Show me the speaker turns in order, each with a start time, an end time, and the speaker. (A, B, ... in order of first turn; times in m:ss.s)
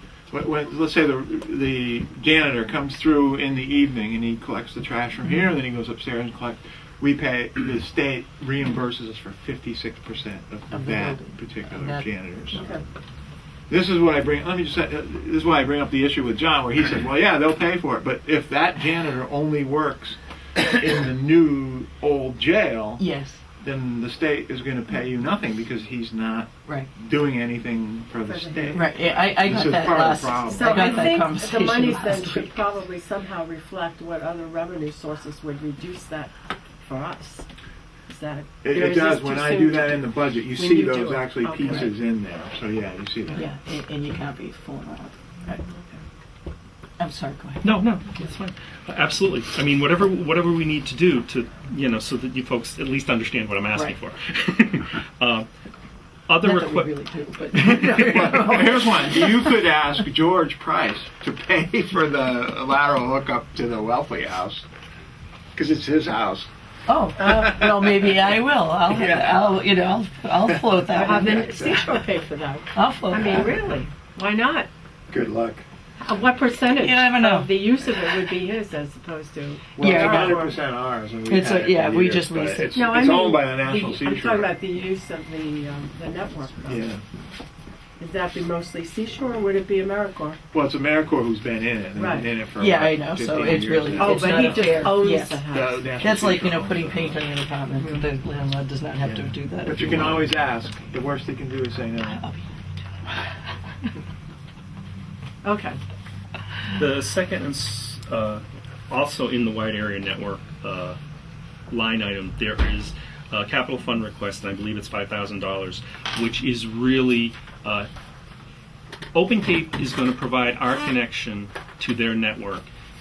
0:00.3-0:12.6 A
0:10.7-0:12.1 B
0:13.7-0:23.0 A
0:23.0-0:23.4 B
0:23.6-0:31.2 A
0:28.3-0:28.9 C
0:28.7-0:32.6 B
0:30.5-0:37.5 C
0:38.1-0:41.9 C
0:38.6-0:43.5 A
0:43.3-0:45.6 B
0:45.4-0:46.0 C
0:47.0-0:47.8 B
0:47.6-0:55.5 D
0:56.3-0:56.9 D
0:56.4-0:59.6 B
0:57.5-0:58.4 D
0:57.9-1:04.7 A
1:05.5-1:06.5 A
1:06.9-1:11.6 B
1:07.2-1:08.2 A
1:08.9-1:09.4 A
1:10.5-1:12.0 A
1:11.0-1:14.7 C
1:12.7-1:13.6 B
1:15.1-1:15.6 A
1:16.0-1:20.6 C
1:16.8-1:18.2 B
1:19.7-1:24.5 A
1:19.8-1:20.5 B
1:21.3-1:23.2 B
1:22.7-1:26.9 C
1:26.7-1:27.0 A
1:28.0-1:30.4 C
1:30.5-1:34.9 A
1:32.0-1:32.3 C
1:32.6-1:40.3 B
1:34.0-1:35.8 C
1:35.5-1:37.2 A
1:37.8-1:38.1 C
1:39.0-1:42.2 A
1:42.0-1:43.2 B
1:45.4-1:45.8 C
1:46.7-1:51.0 D
1:51.7-1:57.9 D
1:59.1-2:02.7 D